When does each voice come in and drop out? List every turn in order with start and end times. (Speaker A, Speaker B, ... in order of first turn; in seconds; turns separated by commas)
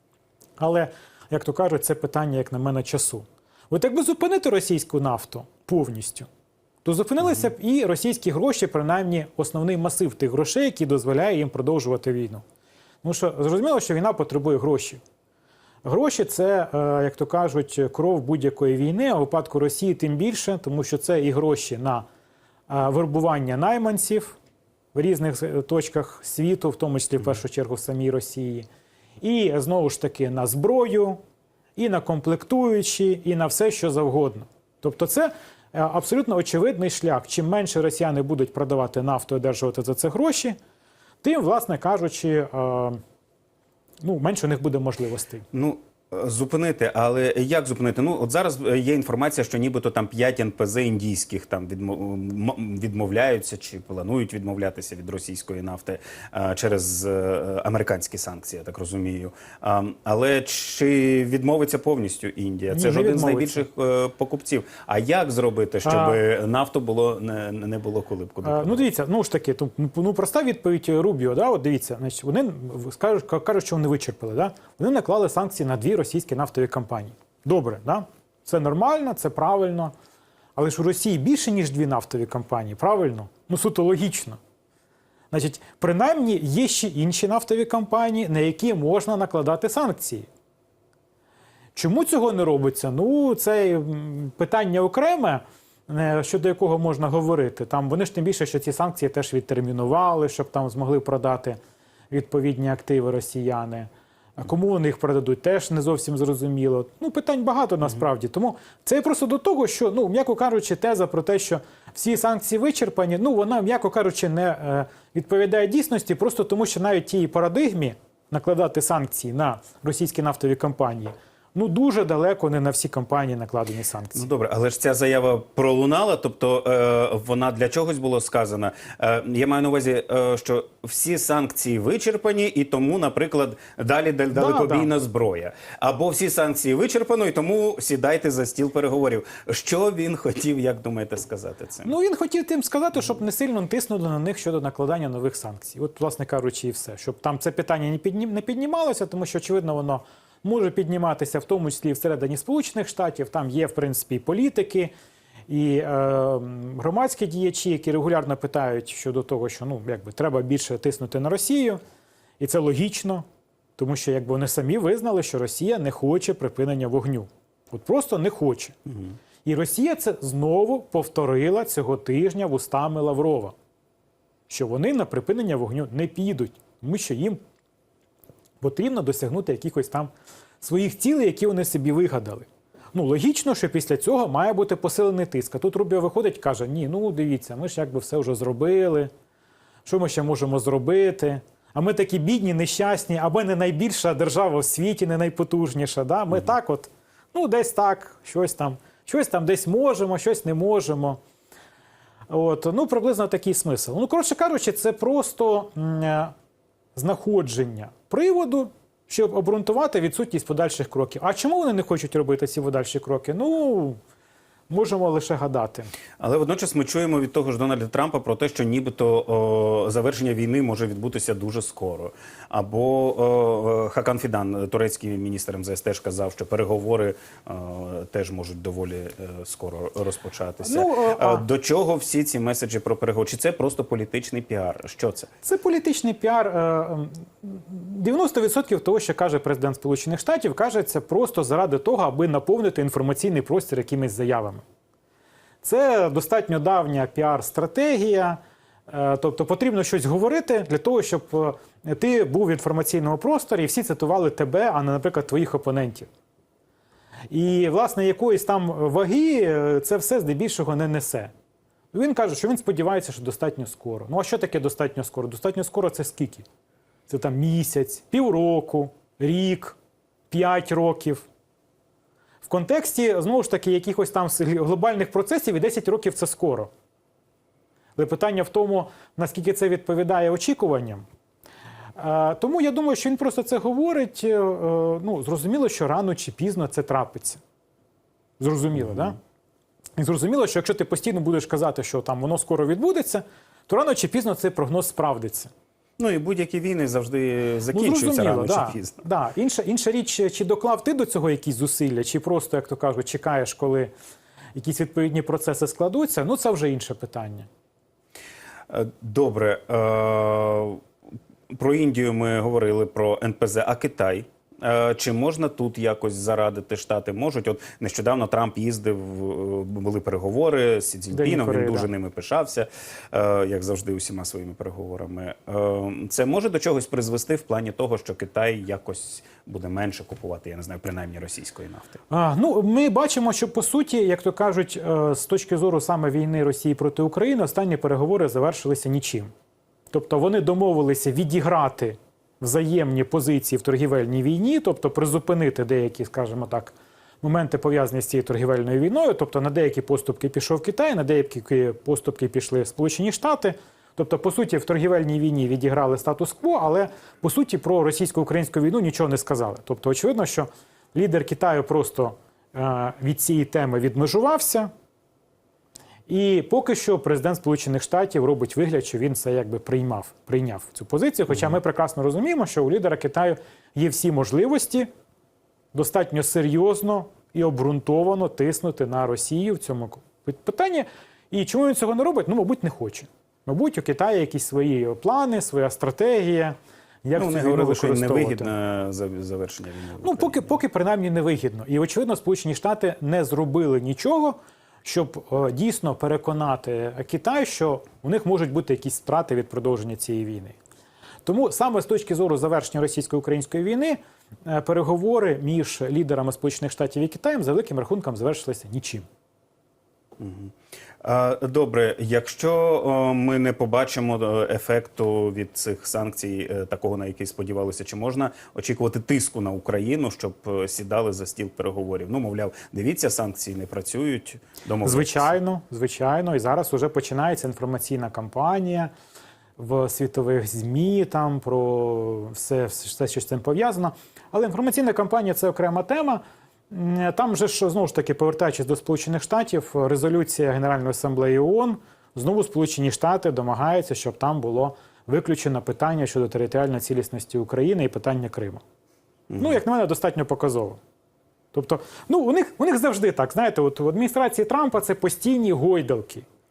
Speaker A: 0.6-6.3, Speaker A: 6.8-12.4, Speaker A: 13.0-15.0, Speaker A: 15.8-22.1, Speaker A: 22.7-24.4, Speaker A: 24.9-28.7, Speaker A: 29.2-31.2, Speaker A: 31.8-40.6, Speaker A: 41.2-43.0, Speaker A: 44.0-45.5, Speaker B: 45.5-68.8, Speaker A: 62.7-63.6, Speaker A: 65.8-66.2, Speaker A: 68.4-79.9, Speaker A: 80.6-84.4, Speaker A: 85.3-90.3, Speaker A: 91.8-101.6, Speaker A: 102.1-124.3, Speaker B: 124.2-141.9, Speaker A: 134.3-134.9, Speaker A: 141.8-154.9, Speaker A: 155.5-161.8, Speaker A: 162.4-163.2, Speaker A: 163.8-168.8, Speaker A: 169.4-173.5, Speaker A: 174.5-177.4, Speaker A: 178.6-189.1, Speaker A: 189.8-201.2, Speaker A: 202.3-206.3, Speaker A: 207.0-214.0, Speaker A: 214.7-215.9, Speaker B: 216.2-235.3, Speaker A: 230.6-231.5, Speaker A: 235.4-244.6, Speaker A: 245.6-256.1, Speaker A: 257.3-261.3, Speaker A: 261.9-266.5, Speaker A: 267.1-269.8, Speaker A: 270.3-271.3, Speaker A: 272.4-276.7, Speaker A: 278.0-281.1, Speaker A: 282.0-287.4, Speaker A: 288.4-289.2, Speaker A: 290.0-295.5, Speaker B: 296.0-299.0, Speaker A: 297.7-303.9, Speaker A: 304.6-307.5, Speaker B: 308.7-310.8, Speaker B: 311.5-332.0, Speaker A: 321.1-321.9, Speaker A: 332.1-339.3, Speaker A: 339.9-364.7, Speaker A: 366.1-374.9, Speaker A: 375.7-388.5, Speaker B: 387.1-390.6, Speaker A: 390.0-400.6, Speaker A: 401.2-409.1, Speaker B: 410.2-425.4, Speaker A: 424.8-428.9, Speaker A: 429.6-448.6, Speaker B: 449.3-449.6, Speaker A: 449.4-450.8, Speaker A: 451.5-456.2